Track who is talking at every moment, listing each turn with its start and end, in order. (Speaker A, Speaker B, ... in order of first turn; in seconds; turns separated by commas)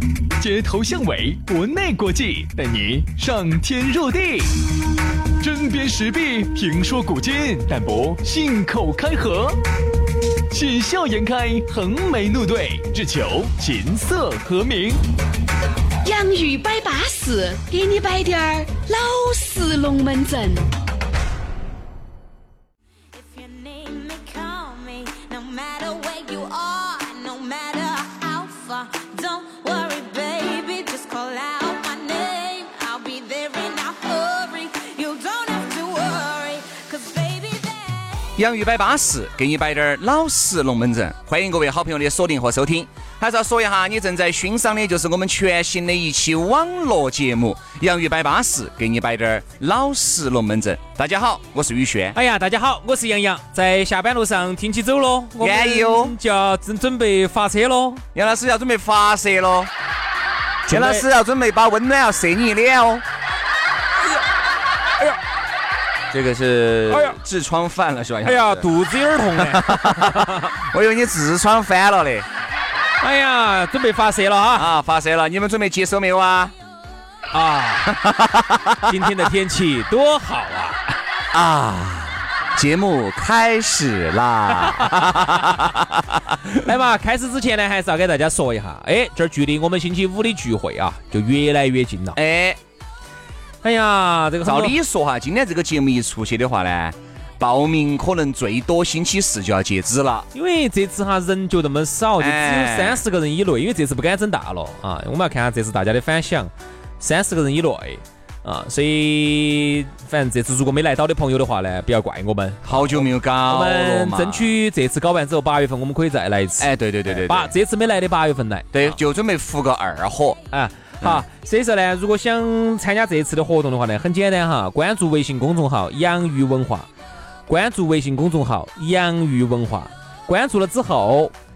Speaker A: 0.4-4.6, Speaker A: 5.4-9.6, Speaker A: 10.5-15.0, Speaker B: 16.0-20.7, Speaker C: 23.1-38.1, Speaker D: 38.4-52.2, Speaker E: 52.1-58.0, Speaker D: 55.4-56.2, Speaker D: 58.1-59.7, Speaker E: 60.7-61.1, Speaker D: 60.7-63.0, Speaker D: 66.1-68.7, Speaker E: 66.9-67.2, Speaker E: 68.2-70.5, Speaker D: 69.4-72.3, Speaker E: 73.0-74.7, Speaker D: 74.5-76.5, Speaker E: 77.3-78.0, Speaker D: 77.8-79.2, Speaker E: 78.8-81.0, Speaker D: 81.3-86.4, Speaker E: 84.6-85.2, Speaker E: 86.4-92.2, Speaker D: 92.2-92.6, Speaker E: 93.6-94.8, Speaker D: 94.4-100.3, Speaker E: 100.3-119.0, Speaker D: 102.2-103.0, Speaker D: 112.7-114.5, Speaker D: 116.6-117.5, Speaker D: 118.7-120.4, Speaker E: 120.5-126.9, Speaker E: 127.5-131.3